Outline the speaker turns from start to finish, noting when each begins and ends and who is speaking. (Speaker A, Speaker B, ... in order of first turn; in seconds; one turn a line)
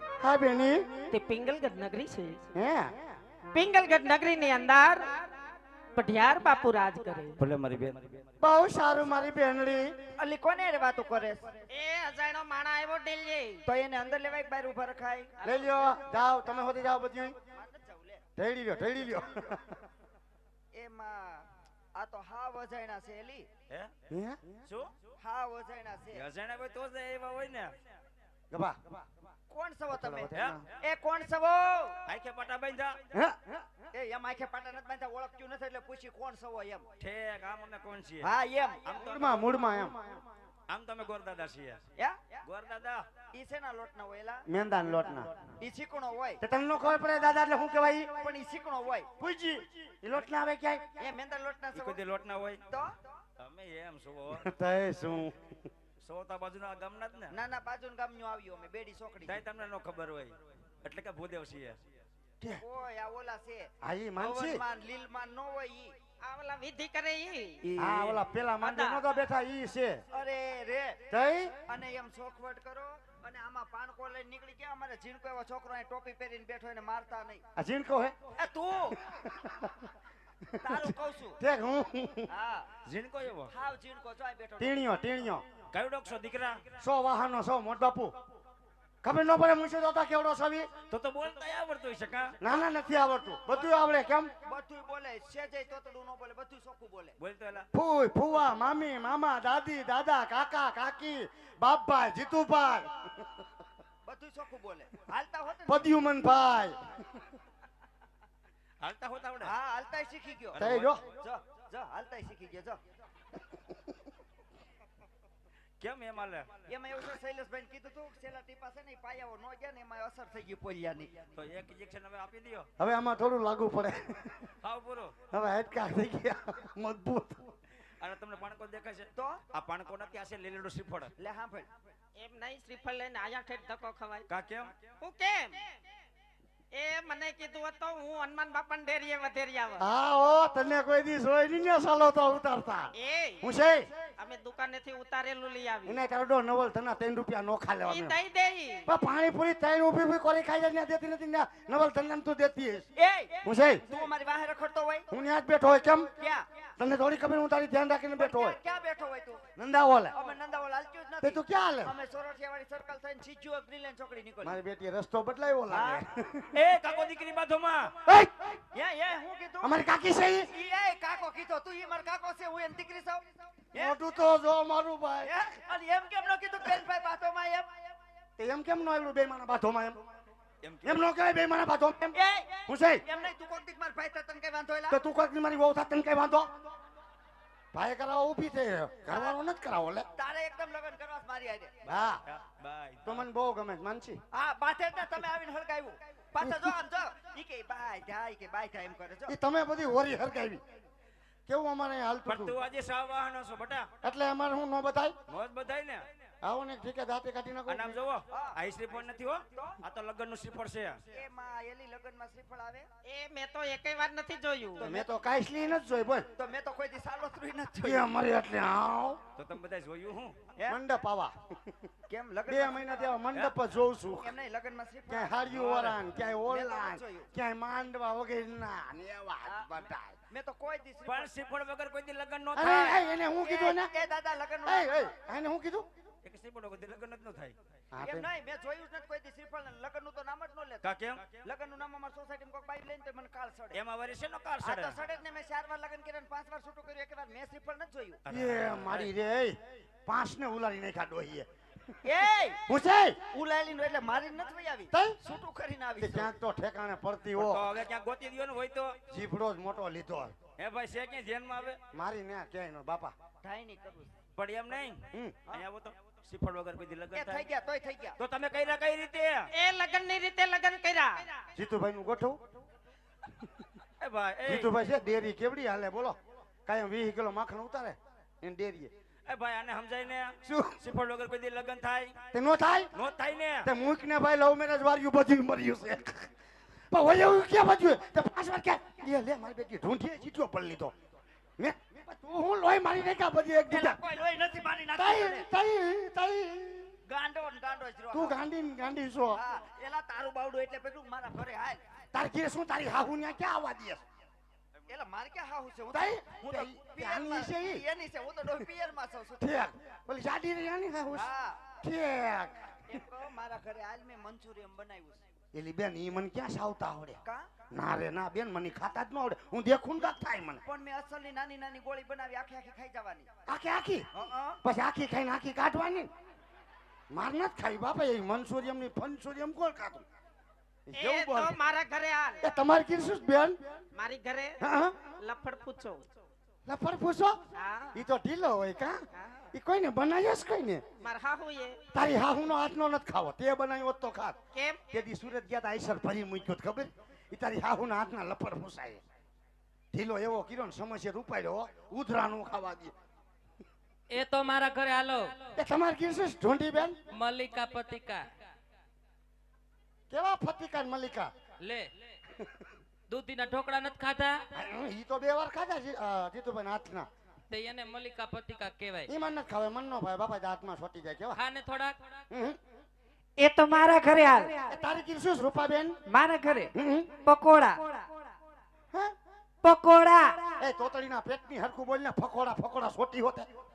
Speaker A: 0.2-1.1
Speaker B: 1.1-2.4
Speaker A: 2.5-3.0
Speaker B: 3.5-5.1
Speaker B: 6.0-7.4
Speaker C: 7.4-8.2
Speaker A: 8.4-10.0
Speaker D: 10.2-11.6
Speaker B: 11.7-13.6
Speaker D: 13.7-15.3
Speaker B: 15.4-15.7
Speaker A: 15.4-17.4
Speaker D: 17.5-18.2
Speaker A: 18.4-19.8
Speaker D: 20.7-23.5
Speaker A: 24.1-24.6
Speaker C: 24.7-24.9
Speaker D: 25.2-26.3
Speaker C: 26.1-27.8
Speaker A: 28.5-29.0
Speaker D: 29.5-32.0
Speaker A: 29.9-30.6
Speaker C: 30.3-30.6
Speaker C: 32.1-33.0
Speaker A: 33.1-33.6
Speaker D: 33.9-36.9
Speaker C: 37.0-38.3
Speaker D: 38.2-39.0
Speaker C: 38.8-39.5
Speaker A: 39.0-40.0
Speaker C: 40.7-41.8
Speaker D: 42.0-42.4
Speaker C: 42.4-43.1
Speaker D: 43.3-46.4
Speaker A: 44.5-45.3
Speaker A: 46.4-48.3
Speaker D: 48.2-49.1
Speaker A: 49.2-50.9
Speaker D: 51.0-52.0
Speaker C: 51.8-52.6
Speaker D: 52.7-53.0
Speaker C: 53.4-54.5
Speaker A: 54.4-55.5
Speaker C: 56.0-57.3
Speaker D: 57.3-59.4
Speaker C: 59.2-61.8
Speaker D: 62.6-65.9
Speaker A: 63.8-64.6
Speaker B: 66.2-67.6
Speaker C: 67.7-68.2
Speaker A: 67.8-70.0
Speaker B: 68.6-69.1
Speaker D: 70.1-71.0
Speaker A: 71.1-71.6
Speaker D: 71.7-77.4
Speaker A: 77.6-78.2
Speaker D: 78.3-79.0
Speaker A: 79.1-79.9
Speaker D: 80.6-81.4
Speaker A: 81.4-82.3
Speaker D: 82.3-82.7
Speaker C: 82.9-83.5
Speaker D: 83.5-84.8
Speaker A: 84.6-85.4
Speaker C: 85.7-86.6
Speaker A: 86.8-88.1
Speaker A: 89.0-90.7
Speaker C: 90.9-92.3
Speaker A: 92.4-94.3
Speaker D: 93.5-93.8
Speaker D: 94.4-97.2
Speaker C: 97.2-97.7
Speaker A: 97.7-103.5
Speaker D: 104.1-105.9
Speaker A: 105.7-107.2
Speaker C: 108.8-109.5
Speaker D: 109.4-112.8
Speaker C: 110.5-110.9
Speaker A: 110.6-111.0
Speaker C: 115.8-116.5
Speaker D: 116.7-121.2
Speaker C: 121.3-122.7
Speaker A: 122.8-124.4
Speaker C: 124.6-125.1
Speaker A: 125.3-127.5
Speaker C: 128.0-131.1
Speaker D: 129.2-129.4
Speaker D: 131.2-131.7
Speaker B: 132.2-134.3
Speaker C: 134.3-134.7
Speaker B: 135.0-135.7
Speaker B: 136.7-139.8
Speaker A: 139.8-143.9
Speaker B: 142.9-143.4
Speaker B: 144.2-146.0
Speaker A: 145.9-148.2
Speaker B: 147.9-148.9
Speaker A: 148.9-152.9
Speaker D: 153.0-155.1
Speaker A: 153.4-153.9
Speaker A: 155.1-156.1
Speaker D: 156.2-156.5
Speaker A: 156.8-158.6
Speaker D: 158.2-159.4
Speaker A: 159.6-160.2
Speaker D: 160.1-164.6
Speaker A: 161.2-161.9
Speaker A: 164.4-166.5
Speaker D: 165.7-166.0
Speaker C: 166.5-168.0
Speaker A: 168.1-168.6
Speaker D: 168.7-169.8
Speaker A: 169.6-170.5
Speaker D: 170.4-174.0
Speaker A: 173.8-175.3
Speaker D: 175.2-177.9
Speaker A: 178.4-180.0
Speaker C: 180.6-181.1
Speaker A: 180.8-182.2
Speaker D: 182.1-185.0
Speaker A: 182.7-183.0
Speaker A: 184.9-186.5
Speaker A: 187.7-190.1
Speaker D: 189.1-189.4
Speaker D: 190.2-191.8
Speaker A: 191.9-192.2
Speaker C: 192.3-193.3
Speaker A: 193.1-194.2
Speaker D: 194.3-199.4
Speaker A: 196.4-196.7
Speaker A: 199.3-200.6
Speaker A: 201.5-202.6
Speaker C: 202.2-203.9
Speaker A: 204.0-205.2
Speaker C: 205.3-206.1
Speaker A: 206.4-208.0
Speaker C: 207.7-211.0
Speaker D: 208.3-209.8
Speaker D: 211.1-212.9
Speaker B: 213.1-214.8
Speaker D: 214.8-215.1
Speaker A: 214.8-216.3
Speaker D: 216.3-218.1
Speaker A: 217.8-219.2
Speaker C: 219.4-220.4
Speaker A: 220.7-221.8
Speaker D: 222.1-223.2
Speaker A: 222.5-224.3
Speaker D: 224.2-225.8
Speaker A: 225.1-230.2
Speaker C: 225.5-226.0
Speaker D: 226.4-227.3
Speaker D: 229.5-229.7
Speaker D: 230.3-231.3
Speaker C: 231.1-233.1
Speaker A: 232.6-233.9
Speaker D: 233.4-235.1
Speaker A: 234.7-235.9
Speaker C: 236.2-237.6
Speaker A: 237.9-238.3
Speaker D: 238.0-243.8
Speaker C: 240.8-241.2
Speaker C: 243.7-245.0
Speaker D: 244.6-248.2
Speaker C: 248.2-249.1
Speaker A: 248.3-251.5
Speaker D: 252.1-252.7
Speaker A: 252.7-253.2
Speaker D: 253.3-256.3
Speaker A: 254.9-255.2
Speaker A: 256.0-257.7
Speaker C: 257.4-259.0
Speaker A: 259.1-260.4
Speaker C: 260.6-261.8
Speaker A: 261.9-263.1
Speaker D: 263.4-264.1
Speaker C: 264.4-267.5
Speaker D: 267.1-268.2
Speaker C: 268.2-269.5
Speaker B: 269.5-271.3
Speaker A: 271.6-272.4
Speaker C: 274.0-274.7
Speaker A: 274.5-278.9
Speaker C: 279.3-282.2
Speaker A: 280.4-280.8
Speaker A: 282.3-282.9
Speaker C: 282.9-283.7
Speaker A: 283.6-286.3
Speaker A: 286.9-290.9
Speaker A: 291.6-294.0
Speaker D: 293.7-295.5
Speaker A: 294.9-297.0
Speaker D: 297.1-298.4
Speaker A: 298.1-299.4
Speaker D: 299.3-301.9
Speaker A: 302.1-304.0
Speaker D: 304.9-309.6
Speaker A: 305.9-307.8
Speaker A: 309.4-311.3
Speaker D: 311.1-311.7
Speaker A: 311.8-312.9
Speaker D: 312.9-315.2
Speaker A: 315.5-317.2
Speaker D: 317.2-317.5
Speaker A: 317.7-320.6
Speaker D: 320.7-323.3
Speaker A: 323.5-324.1
Speaker D: 324.1-324.6
Speaker A: 324.6-326.1
Speaker A: 327.1-330.1
Speaker A: 330.9-331.6
Speaker B: 330.9-332.4
Speaker A: 332.4-333.6
Speaker B: 333.9-334.6
Speaker A: 334.6-335.0
Speaker B: 335.2-336.1
Speaker A: 336.7-337.4
Speaker B: 337.6-338.0
Speaker A: 337.9-340.9
Speaker B: 339.2-339.5
Speaker B: 341.0-341.8
Speaker A: 341.9-344.4
Speaker B: 344.5-344.8
Speaker A: 344.9-349.0
Speaker A: 349.9-352.9
Speaker E: 354.1-355.4
Speaker A: 355.6-357.0
Speaker E: 357.1-358.3
Speaker A: 360.1-361.3
Speaker E: 361.6-361.9
Speaker E: 363.1-364.4
Speaker A: 364.5-367.1
Speaker E: 367.5-369.1
Speaker A: 369.1-371.4
Speaker E: 371.4-372.0
Speaker A: 372.3-372.6
Speaker F: 373.4-374.6
Speaker A: 374.7-376.0
Speaker F: 376.1-376.7
Speaker A: 376.8-377.1
Speaker F: 377.2-377.8
Speaker F: 379.6-380.5
Speaker A: 380.6-383.5